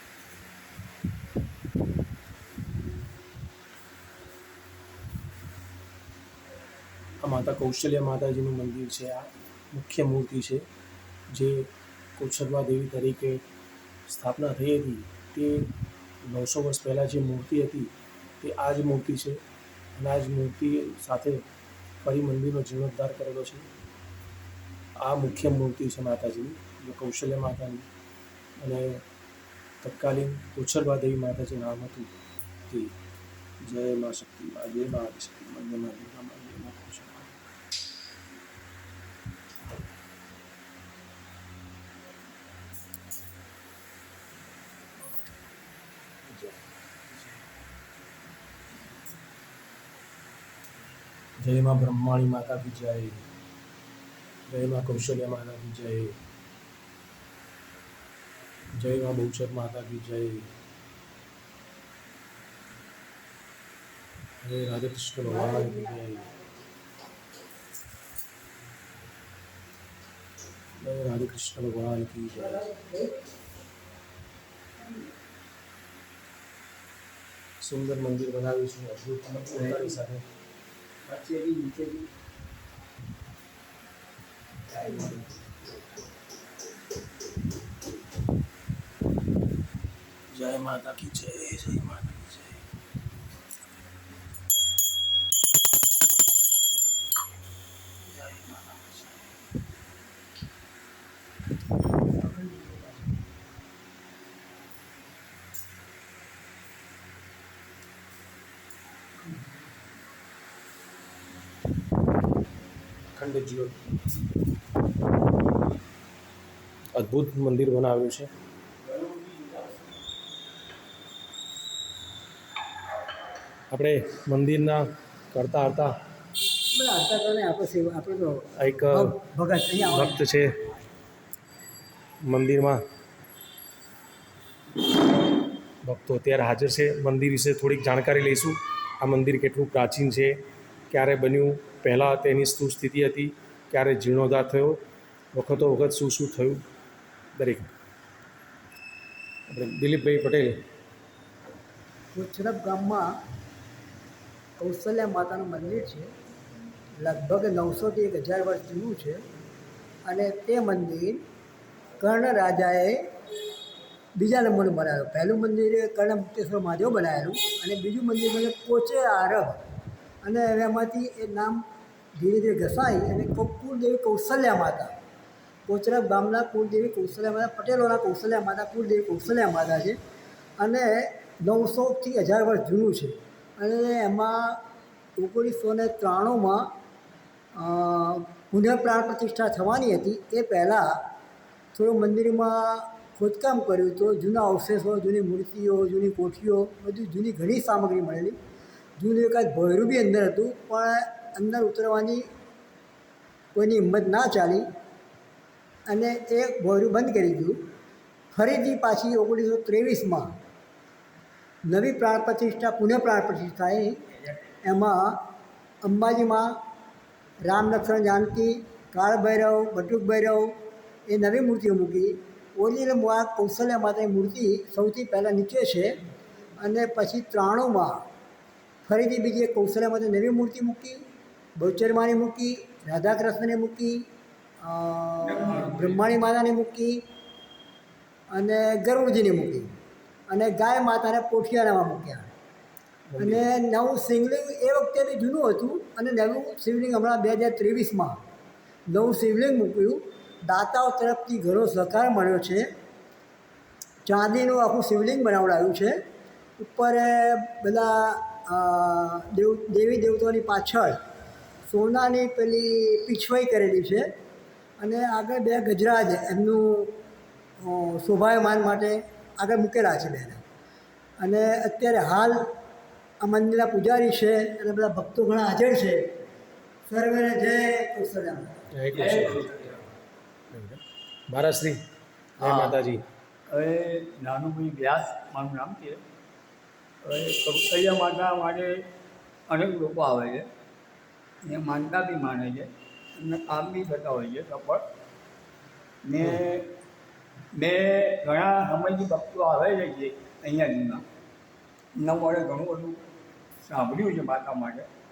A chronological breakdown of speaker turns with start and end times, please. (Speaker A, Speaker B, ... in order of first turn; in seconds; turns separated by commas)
Speaker A: 7.2-10.7, Speaker A: 11.3-13.4, Speaker A: 14.1-15.7, Speaker A: 16.2-19.4, Speaker A: 20.0-21.4, Speaker A: 22.1-23.7, Speaker A: 25.0-27.9, Speaker A: 28.6-29.0, Speaker A: 29.8-32.1, Speaker A: 32.7-32.9, Speaker A: 33.6-37.5, Speaker A: 46.3-47.4, Speaker A: 51.4-53.2, Speaker A: 54.5-56.2, Speaker A: 58.8-60.5, Speaker A: 64.4-66.3, Speaker B: 65.5-65.8, Speaker A: 70.8-72.7, Speaker A: 77.6-80.2, Speaker C: 79.5-79.9, Speaker C: 81.0-82.1, Speaker A: 84.8-85.2, Speaker A: 90.3-92.6, Speaker A: 98.1-99.2, Speaker A: 113.1-114.2, Speaker A: 117.0-118.3, Speaker C: 118.9-119.5, Speaker A: 123.7-125.9, Speaker B: 126.7-130.3, Speaker A: 128.6-129.2, Speaker A: 129.8-130.7, Speaker A: 132.2-132.8, Speaker A: 135.8-140.4, Speaker A: 140.9-144.8, Speaker A: 145.3-146.6, Speaker A: 147.3-147.7, Speaker A: 149.5-150.6, Speaker B: 152.1-153.1, Speaker B: 154.6-156.1, Speaker B: 157.0-159.2, Speaker B: 160.1-161.2, Speaker B: 162.0-163.1, Speaker B: 164.2-169.6, Speaker B: 170.2-171.6, Speaker B: 172.2-174.9, Speaker B: 175.7-180.0, Speaker B: 180.6-184.6, Speaker B: 185.2-186.7, Speaker B: 187.6-191.0, Speaker B: 191.8-198.4, Speaker B: 199.0-202.3, Speaker B: 203.6-204.7, Speaker B: 205.9-207.6, Speaker B: 208.3-210.3, Speaker B: 211.7-214.0, Speaker B: 214.6-215.2, Speaker B: 215.8-216.6, Speaker B: 217.4-220.6, Speaker B: 221.1-226.0, Speaker B: 226.6-228.0, Speaker B: 228.9-231.0, Speaker B: 231.6-234.1, Speaker B: 234.6-237.0, Speaker C: 235.2-236.1, Speaker B: 238.3-239.7, Speaker B: 240.3-242.3, Speaker A: 243.1-243.5, Speaker B: 243.2-248.2, Speaker B: 248.9-252.7, Speaker B: 254.1-256.0, Speaker B: 256.6-261.0, Speaker B: 261.7-264.0, Speaker B: 264.8-267.0, Speaker B: 267.6-270.4, Speaker B: 271.2-272.4, Speaker B: 273.2-276.0, Speaker B: 276.9-278.6, Speaker A: 278.7-279.5, Speaker C: 278.9-279.9, Speaker A: 280.5-281.8, Speaker A: 282.4-283.0, Speaker C: 282.4-282.8, Speaker C: 283.5-286.0, Speaker C: 287.0-288.9, Speaker C: 289.5-290.5, Speaker C: 291.4-294.8, Speaker C: 296.1-296.7, Speaker C: 297.5-301.0, Speaker C: 302.0-303.0, Speaker C: 303.7-304.9